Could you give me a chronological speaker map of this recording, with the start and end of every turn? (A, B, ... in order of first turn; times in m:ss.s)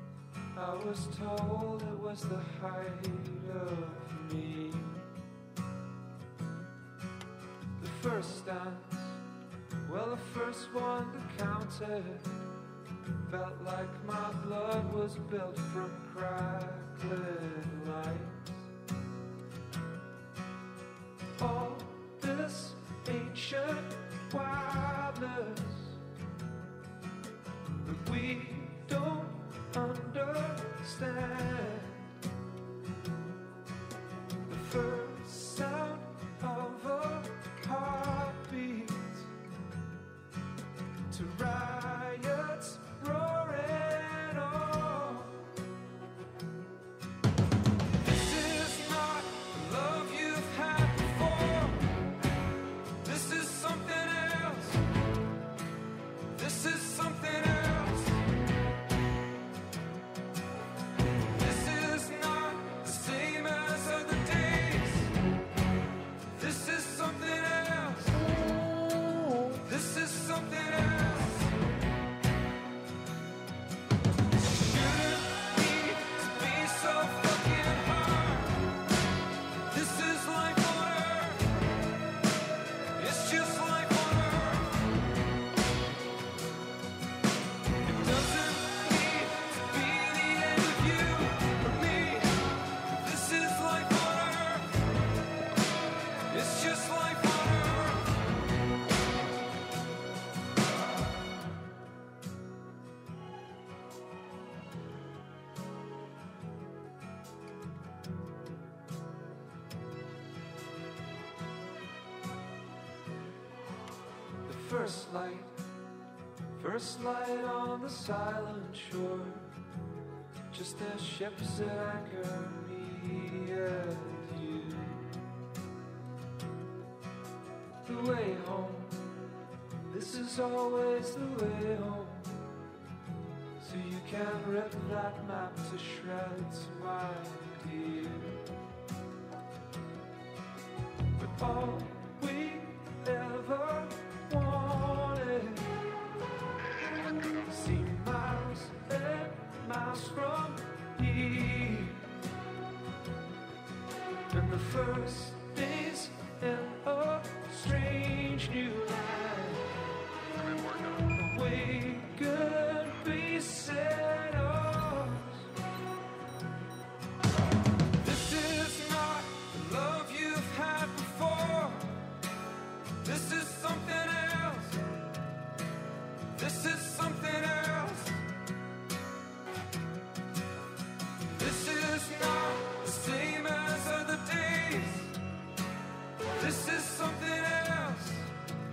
0:00.5-0:05.0 A
0:07.8-0:09.2 A
0:09.8-0:12.3 A
0:13.2-0:18.7 A
0:21.4-0:26.0 A
0:27.8-0:32.1 A
0:34.5-0:39.3 A
0:41.1-0:45.4 A
0:48.0-0:51.9 A
0:53.0-0:54.8 A
0:56.3-0:58.2 A
1:01.4-1:05.1 A
1:06.4-1:08.4 A
1:09.6-1:11.5 A
1:14.5-1:18.5 A
1:19.7-1:21.4 A
1:23.0-1:24.6 A
1:27.8-1:32.3 A
1:33.0-1:34.6 A
1:36.3-1:38.0 A
1:54.4-1:55.5 A
1:56.6-1:59.4 A
2:00.5-2:05.0 A
2:07.8-2:09.1 A
2:09.9-2:12.3 A
2:13.6-2:18.4 A
2:21.2-2:25.7 A
2:27.5-2:32.0 A
2:34.3-2:39.7 A
2:41.1-2:45.4 A
2:48.0-2:51.9 A
2:53.0-2:54.8 A
2:56.4-2:58.2 A
3:01.3-3:05.1 A
3:06.4-3:08.3 A